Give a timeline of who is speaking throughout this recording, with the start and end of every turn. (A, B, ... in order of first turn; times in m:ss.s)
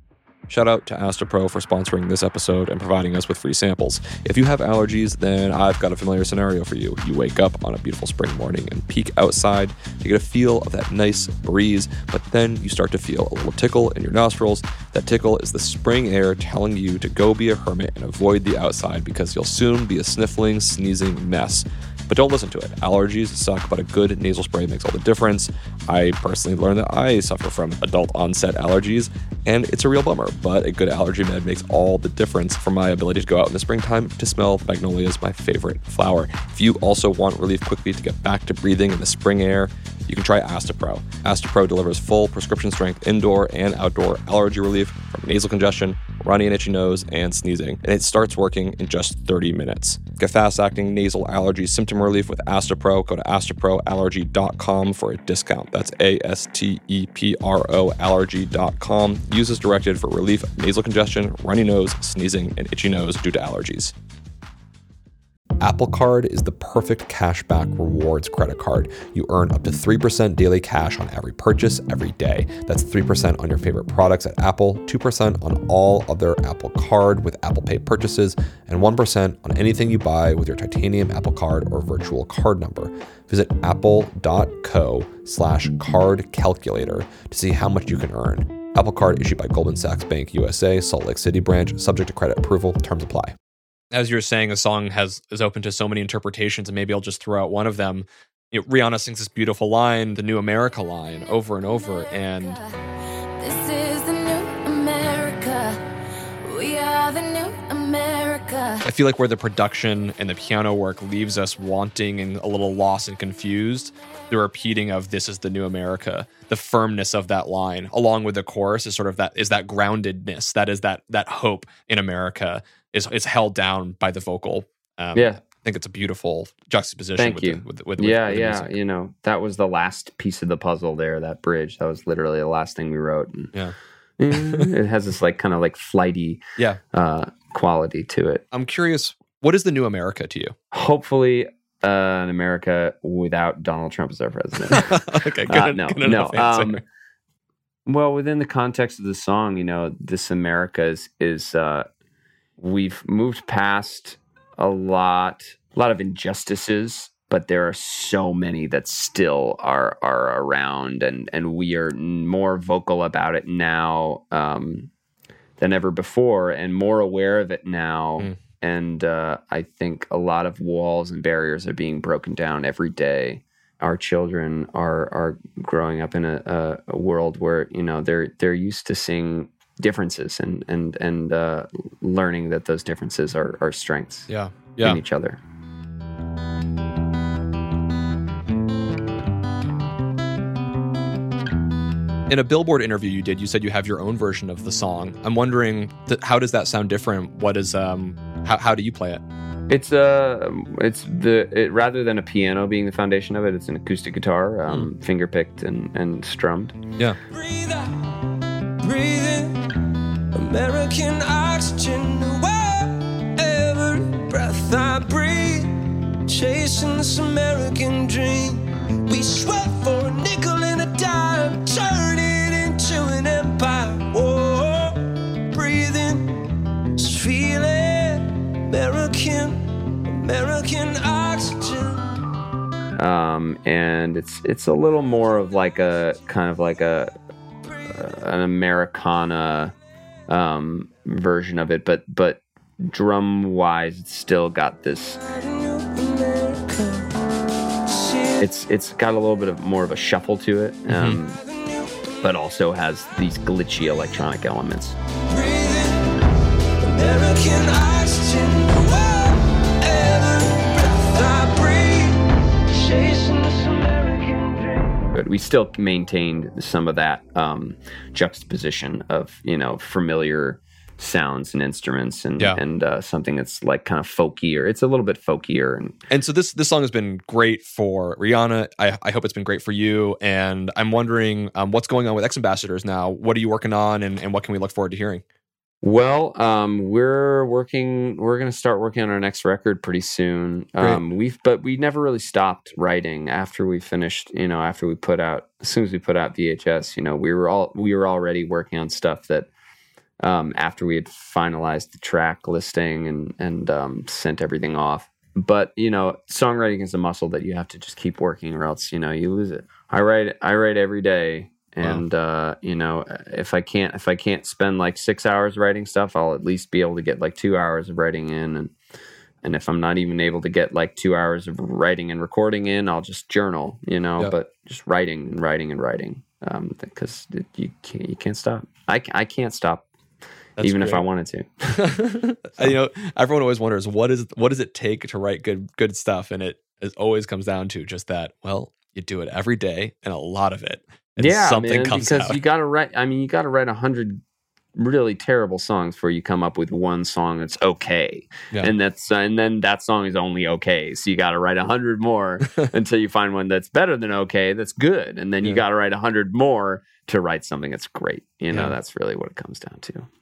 0:00.5-1:03.9 A
1:05.6-1:33.4 A
1:33.9-1:42.6 A
1:41.7-1:42.8 B
1:43.4-1:45.8 B
1:46.4-1:48.8 B
1:48.8-2:08.7 A
2:05.2-2:05.4 C
2:07.2-2:13.5 C
2:14.2-2:16.4 C
2:14.3-2:14.7 A
2:16.9-2:18.4 C
2:18.5-2:20.6 A
2:20.7-2:26.8 C
2:24.7-2:26.8 A
2:27.9-2:31.9 C
2:32.6-2:44.9 C
2:45.6-3:04.3 C
3:04.3-3:05.0 A
3:04.8-3:05.4 C
3:12.3-3:19.2 A
3:19.7-3:26.8 C
3:27.3-3:28.2 D
3:28.8-3:29.6 D
3:30.3-3:52.3 D
3:53.0-3:57.1 C
3:57.6-3:58.0 D
3:57.9-3:59.8 C
4:00.3-4:05.2 C
4:05.2-4:07.1 D
4:07.8-4:08.4 D
4:08.4-4:11.4 C
4:10.9-4:11.2 A
4:11.3-4:12.0 D
4:12.2-4:15.0 C
4:15.3-4:16.2 D
4:16.8-4:25.1 D
4:25.1-4:36.0 C
4:36.1-4:45.2 A
4:45.8-4:59.5 C
5:00.2-5:18.7 C
5:19.4-5:29.9 C
5:30.6-5:31.0 A
5:30.6-5:31.5 C
5:31.7-5:42.4 A
5:41.2-5:44.2 C
5:44.8-6:00.1 C